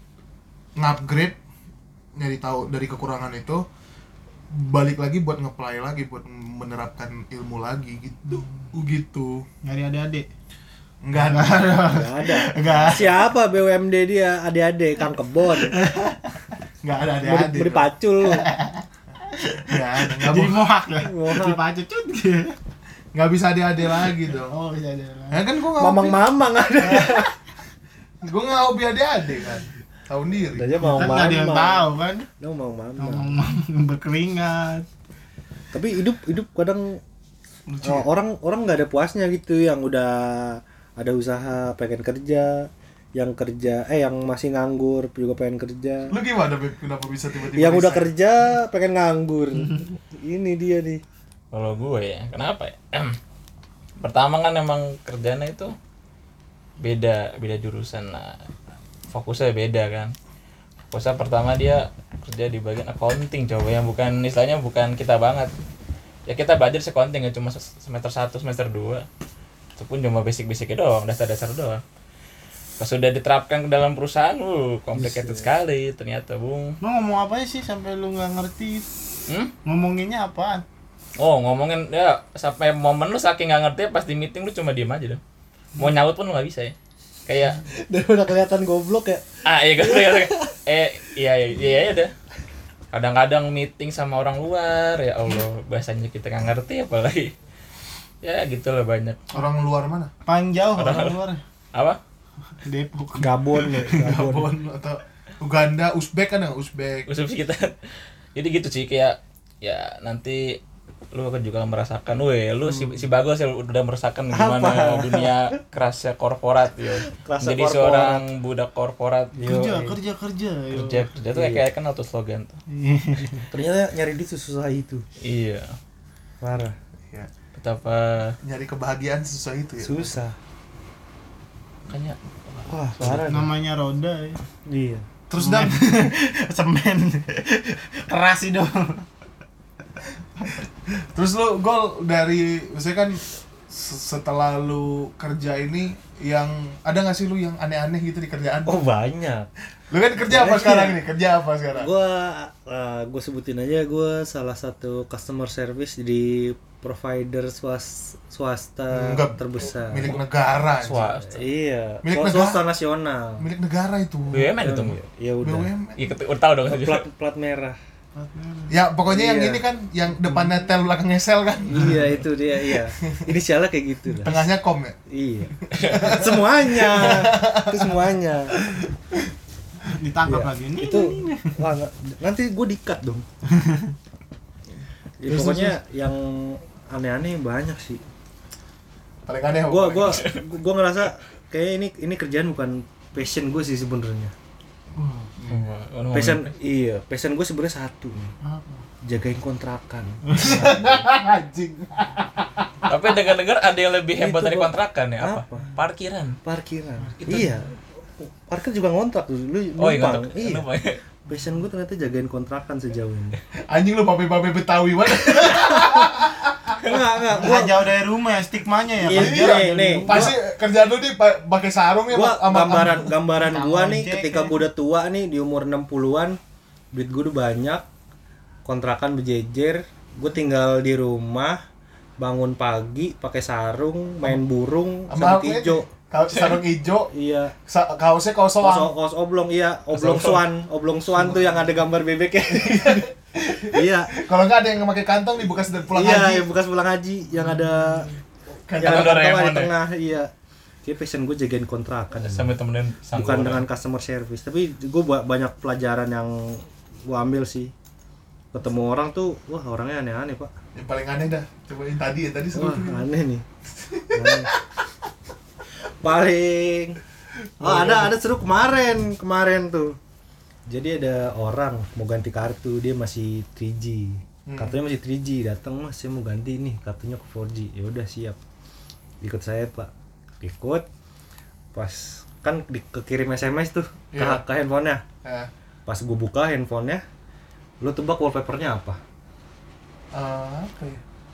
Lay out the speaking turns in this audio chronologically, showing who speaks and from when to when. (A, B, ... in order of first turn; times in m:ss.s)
0:00.8-0:01.4 A
0:02.2-0:03.6 A
0:04.5-0:09.5 A
0:08.3-0:08.7 B
0:09.6-0:10.3 B
0:11.0-0:12.0 A
0:11.1-0:13.2 B
0:11.9-0:15.8 C
0:15.6-0:16.2 B
0:16.8-0:17.9 A
0:17.2-0:18.5 C
0:18.2-0:22.6 B
0:19.7-0:20.6 A
0:21.0-0:21.6 C
0:23.1-0:24.5 A
0:24.3-0:25.4 B
0:25.3-0:26.3 A
0:25.8-0:27.3 C
0:26.8-0:27.1 A
0:26.8-0:27.2 B
0:28.2-0:31.2 A
0:30.5-0:33.3 C
0:30.8-0:32.3 B
0:33.0-0:34.8 B
0:35.7-0:37.0 C
0:37.7-0:38.1 A
0:37.8-0:46.1 C
0:46.1-0:48.1 A
0:47.5-0:51.0 C
0:51.5-0:53.2 D
0:54.0-0:55.7 D
0:56.8-0:58.4 D
0:59.1-1:00.1 D
1:00.9-1:05.5 D
1:06.3-1:09.0 D
1:09.8-1:11.8 D
1:12.8-1:16.8 D
1:15.0-1:15.5 C
1:16.8-1:18.9 B
1:19.6-1:20.6 B
1:21.2-1:25.2 D
1:25.8-1:26.7 D
1:27.2-1:27.6 D
1:27.7-1:29.2 C
1:29.4-1:32.1 D
1:29.8-1:30.4 C
1:32.9-1:37.3 D
1:38.2-1:39.2 D
1:39.3-1:40.1 A
1:40.2-1:41.4 B
1:40.7-1:41.2 D
1:41.7-1:42.0 D
1:42.6-1:44.2 B
1:43.2-1:44.5 C
1:44.0-1:47.1 A
1:47.0-1:47.7 D
1:48.3-1:50.6 D
1:51.1-1:59.3 D
1:54.3-1:55.3 C
1:57.1-1:58.2 C
1:59.3-2:01.1 B
1:59.4-2:00.0 C
2:00.7-2:02.6 D
2:01.3-2:01.6 C
2:02.7-2:03.5 B
2:03.5-2:05.0 C
2:05.2-2:05.7 D
2:06.4-2:06.7 C
2:07.5-2:08.4 D
2:08.4-2:10.1 A
2:09.8-2:10.4 C
2:11.9-2:13.2 D
2:12.7-2:13.5 C
2:13.2-2:14.4 B
2:14.6-2:15.0 C
2:15.3-2:16.0 A
2:15.4-2:19.1 B
2:21.0-2:28.8 A
2:28.6-2:29.5 C
2:29.9-2:31.9 A
2:30.2-2:31.0 C
2:31.8-2:40.1 C
2:38.9-2:41.1 A
2:40.8-2:41.4 D
2:41.2-2:43.4 C
2:42.0-2:42.6 A
2:43.4-2:44.5 A
2:44.3-2:45.0 D
2:44.5-2:45.7 C
2:45.4-2:46.0 A
2:46.0-2:47.0 D
2:46.7-2:47.8 C
2:48.1-2:48.8 B
2:48.7-2:52.2 A
2:49.1-2:49.6 C
2:50.3-2:50.5 B
2:51.7-2:54.4 C
2:53.0-2:53.3 A
2:54.2-2:55.0 A
2:55.1-2:58.6 C
2:55.6-2:59.3 A
2:55.7-2:56.2 D
2:59.8-3:01.6 B
3:00.2-3:03.3 C
3:03.5-3:03.9 B
3:05.2-3:08.0 C
3:05.3-3:05.7 B
3:09.2-3:10.2 A
3:09.7-3:14.3 C
3:10.0-3:10.4 D
3:15.0-3:15.3 B
3:15.3-3:15.7 A
3:15.5-3:16.5 D
3:16.1-3:18.3 C
3:18.4-3:18.8 B
3:19.0-3:21.0 C
3:20.3-3:20.6 B
3:20.4-3:22.9 A
3:22.8-3:26.4 D
3:24.2-3:25.8 C
3:26.4-3:30.6 C
3:27.2-3:27.5 D
3:29.8-3:31.0 D
3:31.3-3:33.4 C
3:33.7-3:36.8 A
3:35.2-3:36.1 C
3:36.8-3:37.9 C
3:37.3-3:40.3 B
3:39.0-3:40.3 C
3:39.0-3:43.1 A
3:42.1-3:46.4 C
3:43.2-3:44.6 B
3:46.9-3:47.8 C
3:48.6-3:51.6 C
3:52.2-3:55.9 C
3:55.1-3:57.1 A
3:57.1-3:57.5 C
3:57.6-3:58.9 A
3:58.6-4:03.1 C
3:59.9-4:00.4 D
4:01.2-4:01.6 A
4:02.5-4:06.5 A
4:03.6-4:04.1 C
4:05.9-4:08.1 C
4:08.7-4:09.2 A
4:08.8-4:09.7 D
4:08.8-4:10.3 C
4:10.8-4:12.5 C
4:12.2-4:13.6 D
4:13.1-4:17.7 C
4:18.5-4:20.5 C
4:20.7-4:23.0 A
4:22.5-4:23.4 C
4:23.8-4:24.6 A
4:24.1-4:24.5 C
4:26.0-4:27.0 C
4:27.6-4:28.1 A
4:27.6-4:30.0 C
4:30.7-4:38.4 C
4:34.4-4:34.8 A
4:39.2-4:40.8 C
4:41.7-4:45.0 C
4:44.1-4:44.4 A
4:45.2-4:45.5 A
4:45.8-4:47.0 C
4:47.8-4:49.0 C
4:50.1-4:51.0 A